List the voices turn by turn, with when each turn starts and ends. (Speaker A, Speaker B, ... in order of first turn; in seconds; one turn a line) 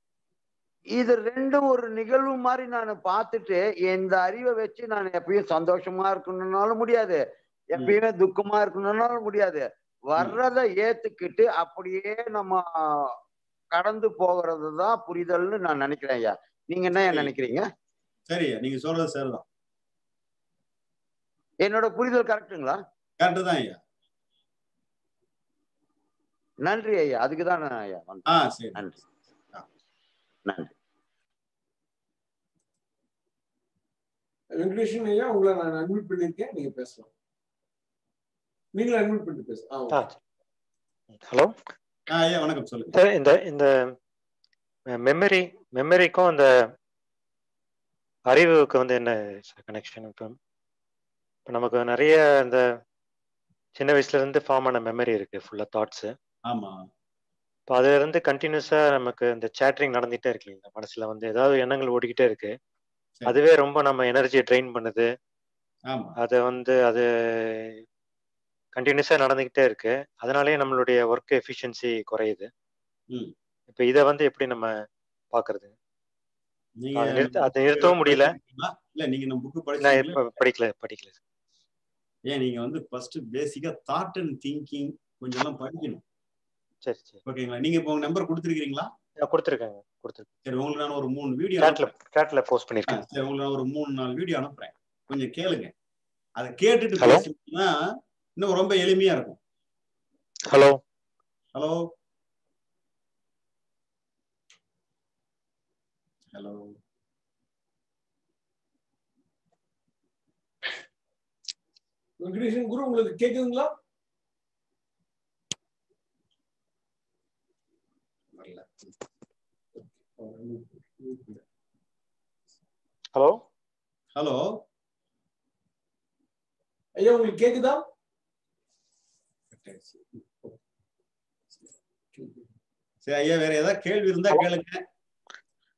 Speaker A: 1.0-7.2
Speaker A: 7.8-12.6
Speaker A: 13.8-17.7
Speaker B: 17.1-17.3
Speaker B: 18.3-19.4
Speaker A: 21.6-22.8
Speaker B: 23.2-23.8
Speaker A: 26.6-28.3
Speaker B: 28.3-29.0
Speaker A: 30.5-30.7
Speaker C: 34.6-37.1
Speaker C: 38.8-40.0
Speaker D: 41.1-41.5
Speaker B: 42.1-42.9
Speaker D: 42.9-43.7
Speaker D: 45.0-46.5
Speaker D: 48.3-50.4
Speaker D: 51.5-52.7
Speaker D: 53.8-56.1
Speaker B: 56.5-56.8
Speaker D: 57.7-62.5
Speaker D: 63.3-65.1
Speaker D: 66.2-67.8
Speaker D: 68.8-72.5
Speaker D: 73.7-74.7
Speaker D: 75.3-75.7
Speaker B: 76.8-80.2
Speaker D: 77.0-78.3
Speaker D: 79.8-81.2
Speaker B: 82.3-86.0
Speaker D: 86.9-87.2
Speaker B: 87.3-88.9
Speaker D: 89.2-90.3
Speaker B: 90.5-91.9
Speaker D: 91.6-93.0
Speaker B: 92.9-95.7
Speaker B: 96.4-97.7
Speaker D: 97.0-97.3
Speaker B: 98.4-99.4
Speaker D: 100.5-100.8
Speaker B: 106.3-106.7
Speaker C: 112.2-113.7
Speaker B: 118.3-118.9
Speaker C: 120.2-121.3
Speaker D: 123.1-123.4
Speaker B: 124.2-124.4
Speaker C: 127.0-127.8
Speaker B: 129.5-130.2
Speaker C: 132.2-132.4
Speaker B: 133.1-134.8